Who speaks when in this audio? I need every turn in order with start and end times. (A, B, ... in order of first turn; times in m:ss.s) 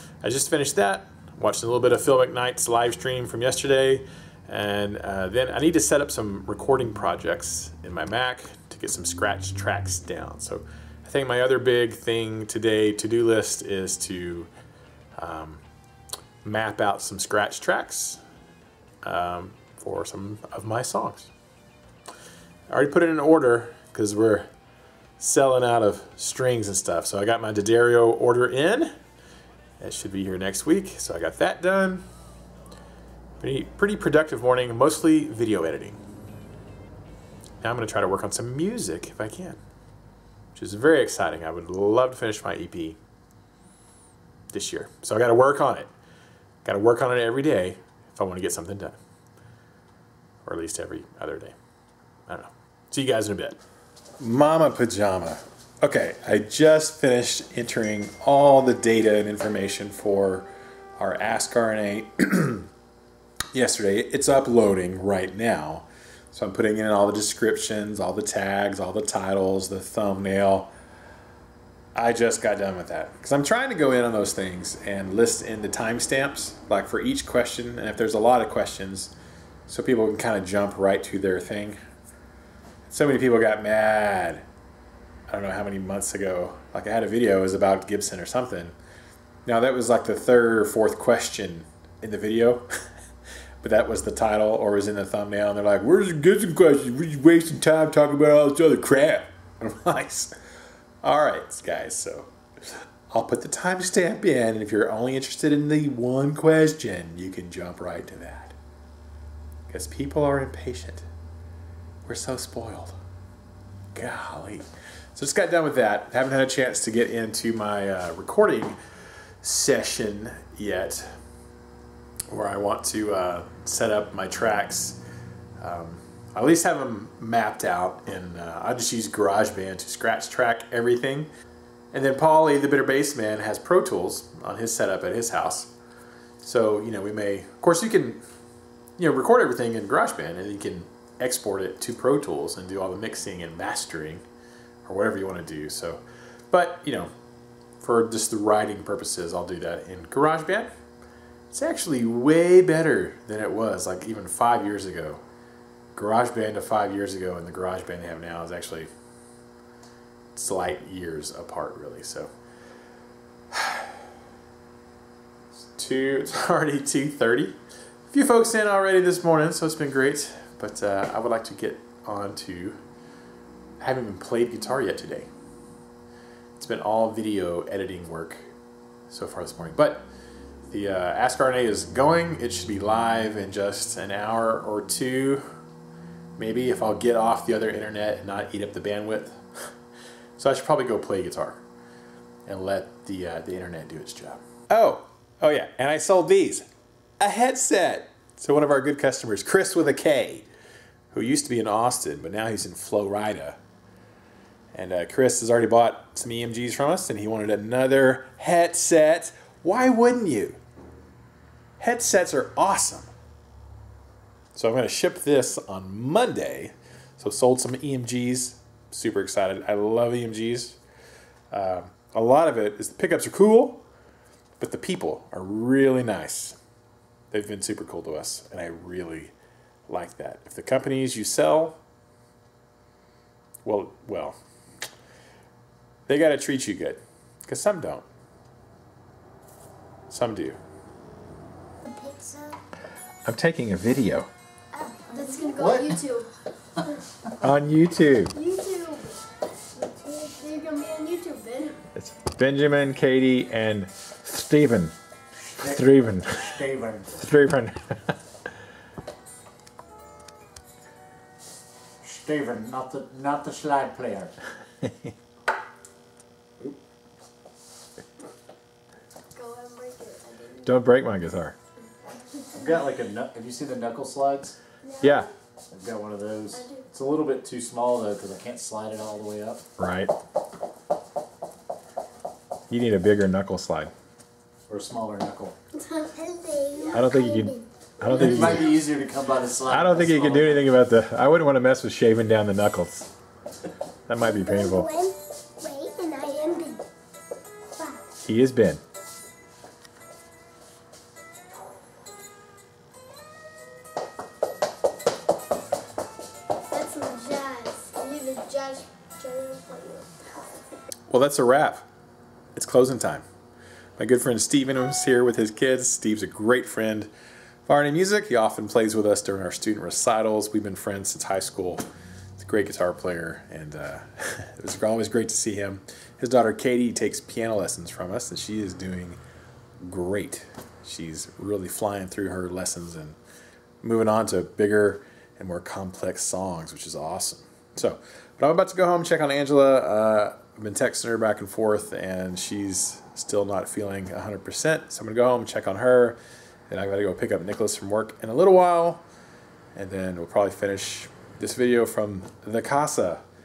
0:00.2-0:14.5 A
0:15.2-0:15.6 A
0:16.4-0:18.2 A
0:19.0-0:21.3 A
0:22.7-0:24.5 A
0:25.2-0:28.9 A
0:29.8-0:32.0 A
0:33.4-0:36.0 A
0:37.6-0:39.6 A
0:40.5-0:43.0 A
0:44.5-0:45.9 A
0:46.6-0:49.0 A
0:50.4-0:51.6 A
0:52.3-0:53.6 A
0:54.2-1:02.7 A
1:03.5-1:10.7 A
1:12.0-1:19.1 A
1:19.7-1:21.8 A
1:22.9-1:24.4 A
1:25.3-1:28.8 A
1:29.5-1:32.7 A
1:33.6-1:40.3 A
1:41.0-1:48.6 A
1:49.7-1:51.1 A
1:52.0-1:53.0 A
1:53.9-1:58.8 A
1:59.4-2:01.1 A
2:02.3-2:05.0 A
2:05.6-2:11.3 A
2:11.9-2:15.7 A
2:16.4-2:18.2 A
2:19.0-2:24.2 A
2:24.8-2:27.1 A
2:27.8-2:30.7 A
2:31.5-2:35.2 A
2:36.0-2:38.9 A
2:40.3-2:42.3 A
2:43.5-2:44.0 A
2:45.8-2:47.6 A
2:48.1-2:52.8 A
2:53.8-2:55.3 A
2:56.6-2:58.4 A
2:59.1-3:00.1 A
3:00.7-3:05.4 A
3:06.4-3:09.4 A
3:10.4-3:11.6 A
3:12.5-3:16.7 A
3:17.2-3:20.5 A
3:21.1-3:23.6 A
3:24.7-3:30.6 A
3:31.8-3:33.1 A
3:34.5-3:40.8 A
3:41.5-3:43.8 A
3:44.6-3:46.6 A
3:47.3-3:49.3 A
3:49.9-3:51.8 A
3:53.6-3:54.4 A
3:56.1-3:58.1 A
4:00.1-4:00.6 A
4:01.8-4:02.6 B
4:03.3-4:04.3 A
4:04.7-4:06.3 B
4:05.4-4:06.0 C
4:07.4-4:08.4 A
4:08.3-4:09.2 B
4:09.8-4:11.8 B
4:12.0-4:14.9 A
4:15.6-4:17.2 C
4:15.7-4:18.2 A
4:22.0-4:24.3 C
4:24.8-4:25.2 A
4:29.4-4:30.7 B
4:30.6-4:31.6 A
4:32.0-4:32.6 B
4:32.5-4:34.6 C
4:34.8-4:35.3 B
4:35.0-4:35.3 A
4:35.7-4:39.6 C
4:36.5-4:36.9 B
4:39.8-4:40.1 A
4:42.7-4:43.9 A
4:44.7-4:45.6 C
4:45.7-4:48.7 B
4:46.9-4:48.8 A
4:48.0-4:50.6 C
4:49.7-4:53.1 A
4:54.1-4:54.9 A
4:54.2-4:56.8 B
4:57.8-4:58.0 B
4:58.2-4:58.8 A
5:06.7-5:10.5 B
5:11.1-5:11.9 A
5:12.6-5:13.3 A
5:14.0-5:17.1 A
5:17.7-5:21.8 A
5:22.4-5:29.2 A
5:29.8-5:33.2 A
5:33.8-5:49.1 A
5:49.8-5:53.2 A